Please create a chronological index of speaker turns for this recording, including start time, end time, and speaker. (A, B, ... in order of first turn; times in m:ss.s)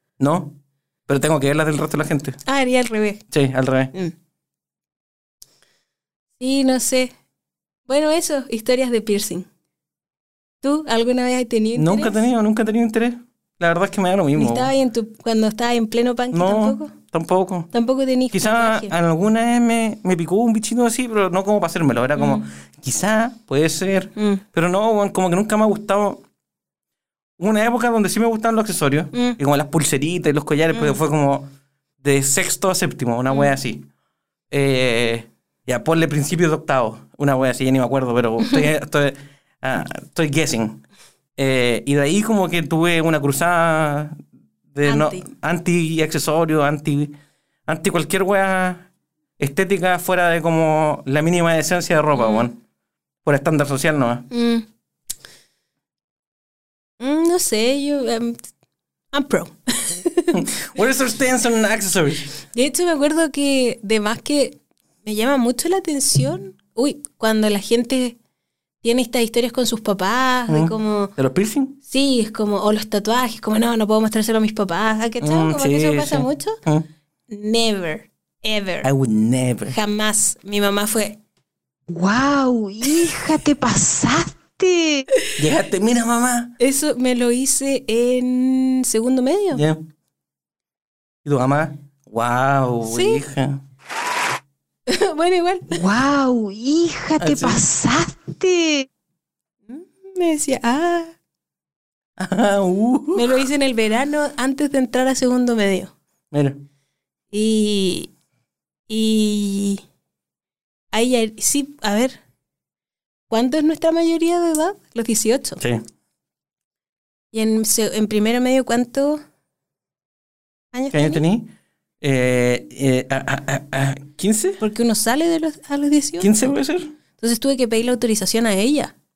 0:00.2-0:00.6 A
0:01.1-0:02.4 A
0:02.4-0:03.2 B
0:03.3-0:03.9 A
0:06.4-0:07.1 B
0:07.9-0:09.5 B
0:10.6-0:12.2 B
0:11.7-0:14.7 A
0:14.3-0:16.9 B
0:16.3-0:17.7 A
0:17.7-0:18.9 B
0:18.3-0:26.2 A
0:22.2-0:22.4 B
0:24.2-0:24.4 B
0:27.4-0:31.5 A
0:29.1-0:29.4 B
0:30.7-0:31.0 B
0:32.0-0:33.9 A
0:34.5-0:40.8 A
0:41.4-0:44.2 A
0:44.7-0:47.1 A
0:44.8-0:45.3 B
0:47.7-0:48.9 A
0:49.4-0:52.6 A
0:52.1-0:52.5 B
0:53.2-0:54.2 A
0:54.3-0:54.6 B
0:57.0-0:58.4 B
0:59.1-1:00.4 B
1:00.3-1:02.2 A
1:02.5-1:08.2 B
1:08.8-1:11.1 B
1:10.5-1:11.8 A
1:11.8-1:16.6 B
1:15.2-1:16.9 A
1:17.3-1:18.9 B
1:18.8-1:19.8 A
1:19.7-1:21.2 B
1:21.9-1:25.0 C
1:25.4-1:26.5 A
1:26.6-1:29.6 B
1:29.5-1:29.8 A
1:31.2-1:33.6 A
1:32.8-1:33.2 B
1:34.9-1:35.8 B
1:35.7-1:38.8 C
1:37.2-1:37.6 A
1:39.7-1:41.2 B
1:42.2-1:43.4 A
1:43.1-1:45.9 B
1:46.3-1:46.6 A
1:47.3-1:48.1 B
1:48.9-1:49.8 B
1:50.9-1:52.2 B
1:53.3-1:55.6 B
1:55.6-1:55.8 A
1:57.3-1:59.2 B
2:00.7-2:01.2 B
2:00.9-2:04.6 A
2:04.6-2:06.5 B
2:06.2-2:06.9 A
2:07.2-2:08.9 B